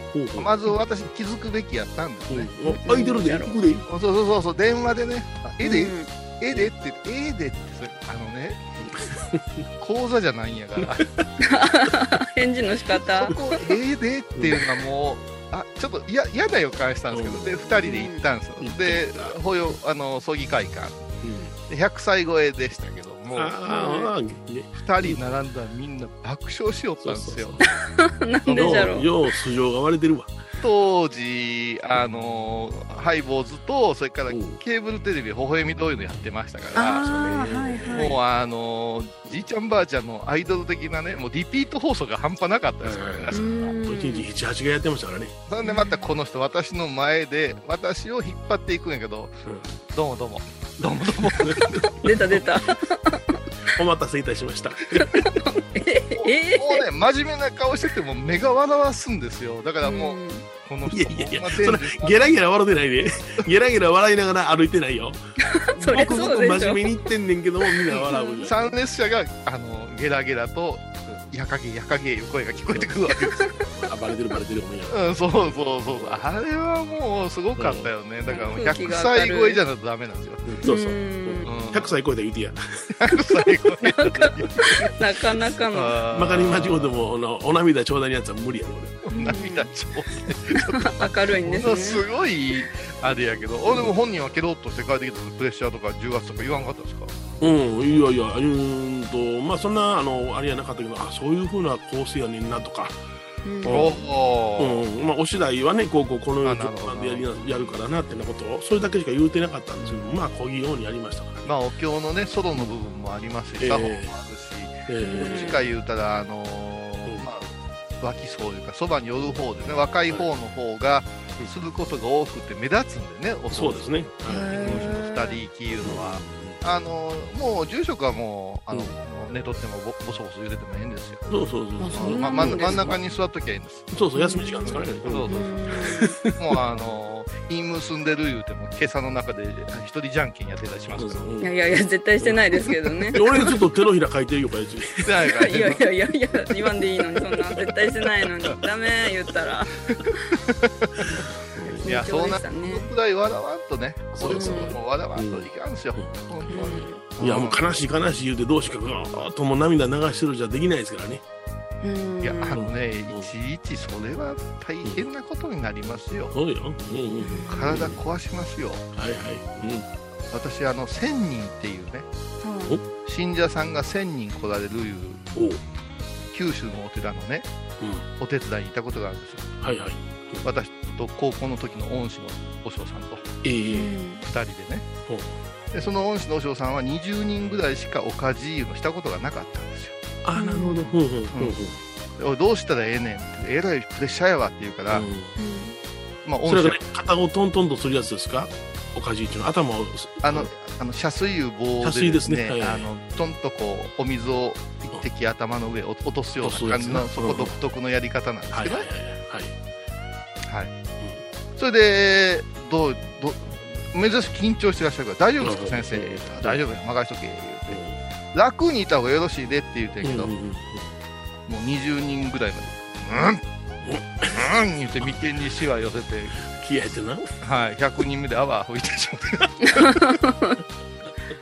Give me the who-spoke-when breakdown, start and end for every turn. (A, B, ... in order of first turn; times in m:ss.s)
0:00.1-0:00.6 A
0:00.4-0:02.5 B
0:02.3-0:03.9 A
0:02.6-0:03.5 C
0:03.9-0:08.6 B
0:05.6-0:06.1 C
0:08.8-0:09.6 A
0:09.8-0:11.0 B
0:10.8-0:11.2 A
0:11.4-0:13.4 C
0:13.1-0:21.1 B
0:17.1-0:17.7 A
0:17.8-0:18.2 C
0:18.6-0:19.3 A
0:21.2-0:21.5 A
0:21.7-0:23.6 B
0:23.3-0:25.2 A
0:23.7-0:24.1 C
0:24.8-0:27.6 B
0:27.0-0:27.6 A
0:27.8-0:29.1 C
0:28.4-0:29.0 B
0:28.5-0:30.4 A
0:30.6-0:37.1 B
0:34.3-0:34.6 A
0:36.7-0:38.1 C
0:36.9-0:38.1 A
0:37.9-0:43.7 B
0:42.8-0:45.3 A
0:43.3-0:44.2 C
0:45.5-0:51.6 B
0:51.4-0:52.4 A
0:51.8-0:53.4 C
0:53.7-0:55.3 A
0:55.0-0:56.8 C
0:56.5-1:02.3 B
0:59.8-1:00.4 C
1:00.9-1:05.2 A
1:05.6-1:06.9 C
1:05.8-1:08.7 A
1:05.8-1:06.2 B
1:07.9-1:08.4 C
1:08.4-1:13.5 B
1:13.7-1:16.2 A
1:14.9-1:20.5 B
1:17.6-1:17.9 A
1:18.3-1:19.6 C
1:20.4-1:23.0 A
1:20.6-1:21.5 C
1:21.4-1:21.9 B
1:23.0-1:24.9 B
1:23.8-1:25.9 C
1:25.7-1:27.0 B
1:26.1-1:29.1 A
1:29.1-1:37.3 B
1:29.1-1:29.7 C
1:30.7-1:32.0 C
1:37.4-1:43.0 A
1:43.4-1:43.8 C
1:43.6-1:43.9 A
1:43.6-1:44.8 B
1:44.6-1:51.5 A
1:46.4-1:47.8 B
1:51.4-1:57.5 B
1:53.6-1:54.1 A
1:54.9-1:55.6 A
1:55.0-1:55.6 C
1:58.0-2:11.2 B
2:03.5-2:04.9 A
2:04.2-2:05.4 C
2:05.8-2:06.6 A
2:11.3-2:13.0 A
2:11.8-2:12.9 C
2:11.9-2:14.0 B
2:13.9-2:16.6 A
2:14.2-2:14.7 C
2:14.6-2:21.3 B
2:15.3-2:16.1 C
2:20.9-2:21.5 A
2:21.4-2:23.5 C
2:22.2-2:25.1 A
2:25.0-2:25.8 B
2:25.4-2:30.3 C
2:30.3-2:31.2 B
2:31.5-2:31.8 A
2:31.8-2:32.9 C
2:31.8-2:37.6 B
2:34.1-2:41.2 A
2:34.2-2:34.8 C
2:36.5-2:36.9 C
2:41.8-2:42.6 C
2:42.2-2:46.3 B
2:42.5-2:43.3 A
2:46.3-2:48.0 A
2:47.2-2:47.6 C
2:47.5-2:48.8 B
2:48.9-2:49.9 A
2:50.3-2:52.1 B
2:52.4-2:52.8 C
2:53.0-2:55.2 B
2:55.3-2:55.6 A
2:56.3-2:57.5 B
2:57.8-2:58.0 A
2:58.2-2:59.5 B
2:59.6-3:00.4 A
3:00.4-3:03.4 B
3:03.4-3:04.0 A
3:03.7-3:04.2 C
3:04.2-3:04.9 B
3:05.7-3:10.0 B
3:10.2-3:11.8 A
3:10.4-3:10.9 C
3:11.3-3:11.6 B
3:12.2-3:15.1 B
3:14.9-3:15.3 A
3:15.4-3:15.8 C
3:16.2-3:16.8 B
3:16.5-3:20.5 A
3:20.2-3:28.9 B
3:21.8-3:22.8 A
3:26.4-3:27.5 A
3:28.5-3:29.5 A
3:30.4-3:30.7 B
3:31.6-3:37.8 B
3:35.4-3:36.6 A
3:37.7-3:38.0 A
3:38.3-3:40.3 B
3:40.0-3:40.9 A
3:41.5-3:43.4 B
3:43.8-3:44.5 A
3:44.2-3:46.4 B
3:46.5-3:47.3 A
3:47.4-3:50.0 B
3:49.6-3:50.6 C